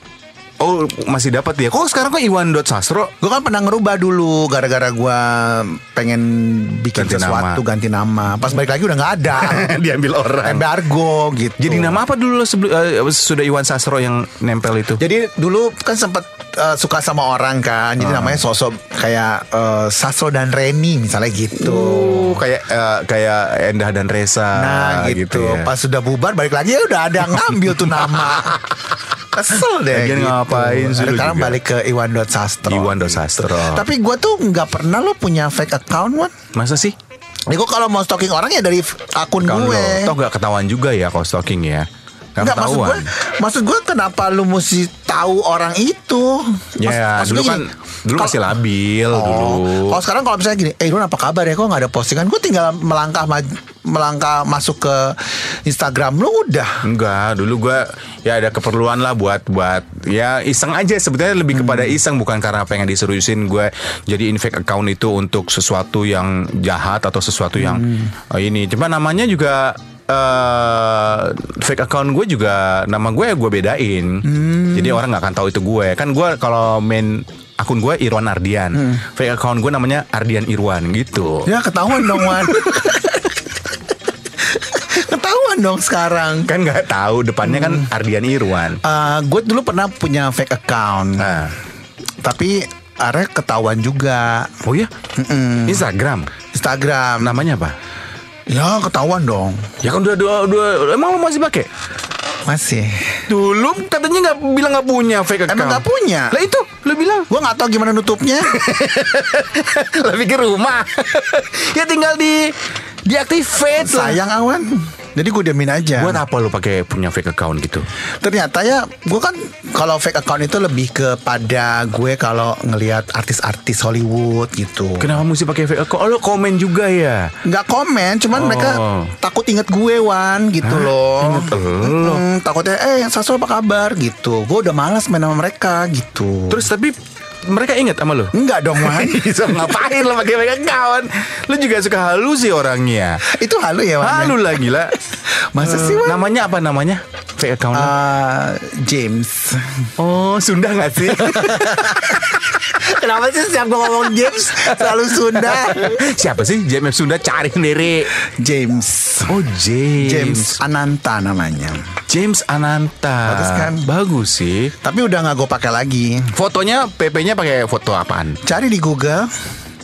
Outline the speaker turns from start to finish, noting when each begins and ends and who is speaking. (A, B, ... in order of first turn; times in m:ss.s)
0:00.6-0:03.1 A
0:03.2-0:09.7 B
0:07.0-0:07.6 A
0:09.3-0:10.7 A
0:10.4-0:12.0 B
0:11.6-0:15.0 A
0:15.0-0:22.4 B
0:18.0-0:18.4 A
0:21.6-0:25.7 A
0:24.6-0:28.6 B
0:27.9-0:28.7 A
0:29.3-0:36.3 B
0:29.9-0:31.6 A
0:32.7-0:33.9 A
0:36.5-0:37.0 A
0:37.5-0:40.2 B
0:39.4-0:43.1 A
0:42.4-0:48.5 B
0:46.8-0:50.0 A
0:49.1-0:56.8 B
0:56.8-1:23.0 A
1:07.6-1:08.1 B
1:14.3-1:15.0 B
1:21.5-1:23.4 B
1:24.5-1:26.5 B
1:26.5-1:28.8 A
1:27.5-1:27.8 B
1:28.8-1:31.3 B
1:31.2-1:31.6 A
1:32.2-1:34.5 B
1:34.6-1:34.9 A
1:35.2-1:35.8 B
1:35.7-1:36.3 A
1:36.5-1:37.4 B
1:37.2-1:37.8 A
1:38.5-1:39.7 B
1:39.8-1:41.7 A
1:42.5-1:43.3 B
1:43.3-1:47.3 A
1:45.5-1:46.4 B
1:47.3-1:48.6 B
1:48.4-1:54.2 A
1:53.8-1:56.2 B
1:55.9-1:57.9 A
1:58.2-2:05.2 B
2:05.0-2:07.3 A
2:07.4-2:16.7 B
2:08.3-2:09.2 A
2:10.6-2:12.2 A
2:16.5-2:23.2 A
2:18.3-2:19.3 B
2:23.3-2:24.4 B
2:24.0-2:24.9 A
2:25.5-2:26.3 B
2:25.6-2:27.9 A
2:27.7-2:29.9 B
2:30.0-2:32.6 A
2:31.3-2:36.0 B
2:34.1-2:38.1 A
2:38.3-2:39.4 B
2:39.3-2:40.6 A
2:40.0-2:41.8 B
2:42.1-2:44.7 A
2:43.3-2:43.9 B
2:44.8-2:46.3 B
2:46.3-2:48.4 A
2:48.4-2:49.3 B